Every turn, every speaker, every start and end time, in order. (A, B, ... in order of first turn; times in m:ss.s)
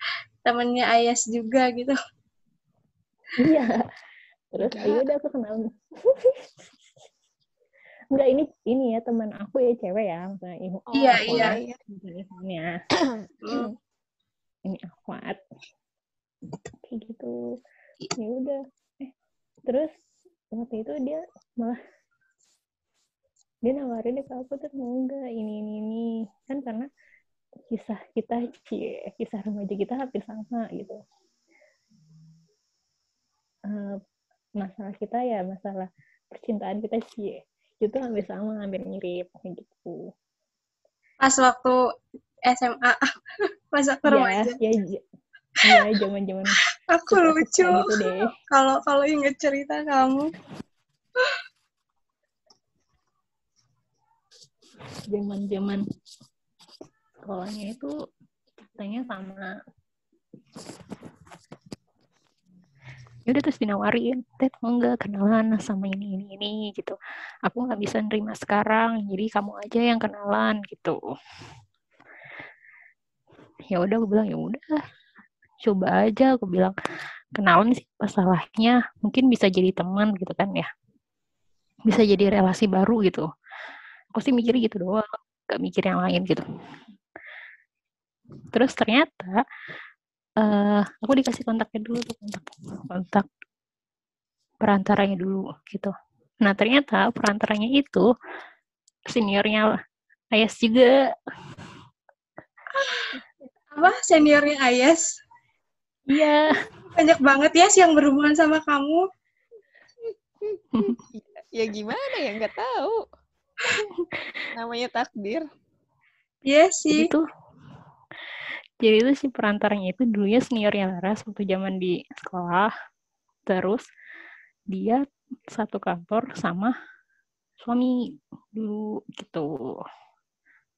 0:00.4-0:02.0 A
0:03.4-0:03.8 B
0:04.5-0:06.5 B
0:04.7-0:05.0 C
0:08.1-0:12.8 B
0:10.9-0:11.8 C
0:10.9-0:11.6 A
0:13.0-0:13.7 C
0:14.7-0:15.4 B
0:16.9-0:17.4 B
0:18.2-0:19.1 B
0:20.5-0:21.8 B
0:23.6-0:26.9 B
0:27.7-0:31.0 B
0:33.7-0:34.0 B
0:34.6-0:40.1 B
0:41.2-0:41.8 A
0:42.5-0:43.1 A
0:43.7-0:44.6 A
0:44.1-0:45.0 B
0:45.6-0:46.6 B
0:46.9-0:50.3 A
0:47.1-0:48.3 B
0:55.1-0:55.8 B
0:57.3-0:57.9 B
0:58.8-0:59.5 B
1:03.3-1:11.0 B
1:13.7-1:14.8 B
1:15.6-1:16.7 B
1:17.4-1:20.7 B
1:21.9-1:23.3 B
1:24.1-1:26.4 B
1:28.5-1:29.4 B
1:30.4-1:33.3 B
1:34.6-1:35.9 B
1:36.4-1:38.1 B
1:39.1-1:39.8 B
1:40.3-1:40.9 B
1:42.8-1:43.2 A
1:43.7-1:45.1 A
1:46.1-1:46.6 B
1:47.0-1:49.0 A
1:50.0-1:53.0 C
1:54.5-1:55.5 C
1:56.4-1:57.1 A
1:56.9-1:57.2 B
1:58.8-2:02.7 B
2:03.5-2:03.8 B
2:04.7-2:05.0 B
2:05.5-2:06.7 B
2:07.6-2:08.0 B
2:08.6-2:09.5 B